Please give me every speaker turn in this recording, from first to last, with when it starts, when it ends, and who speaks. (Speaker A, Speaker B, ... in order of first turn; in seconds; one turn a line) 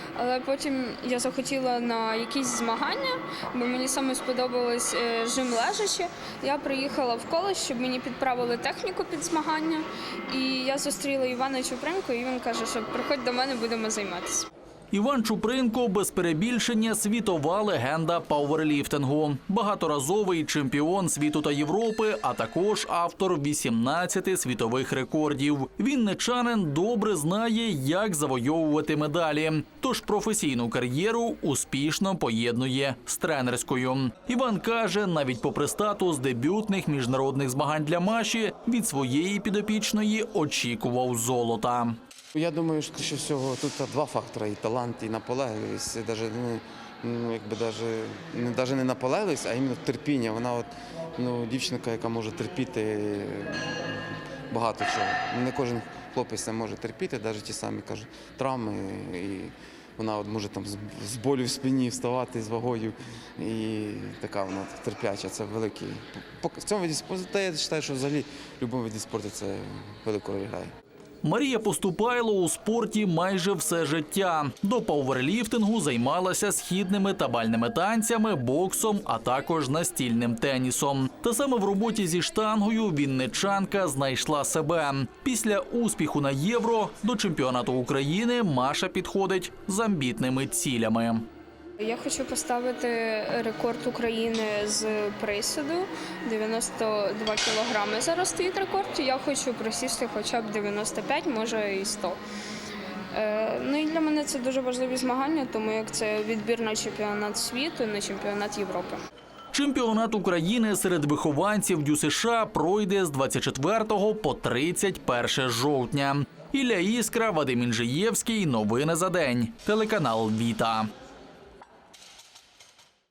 Speaker A: 0.2-14.5
Speaker B: 14.9-42.0
Speaker C: 42.3-53.6
Speaker C: 54.5-70.7
Speaker B: 71.2-91.3
Speaker A: 91.8-102.2
Speaker A: 103.1-109.0
Speaker B: 109.5-120.9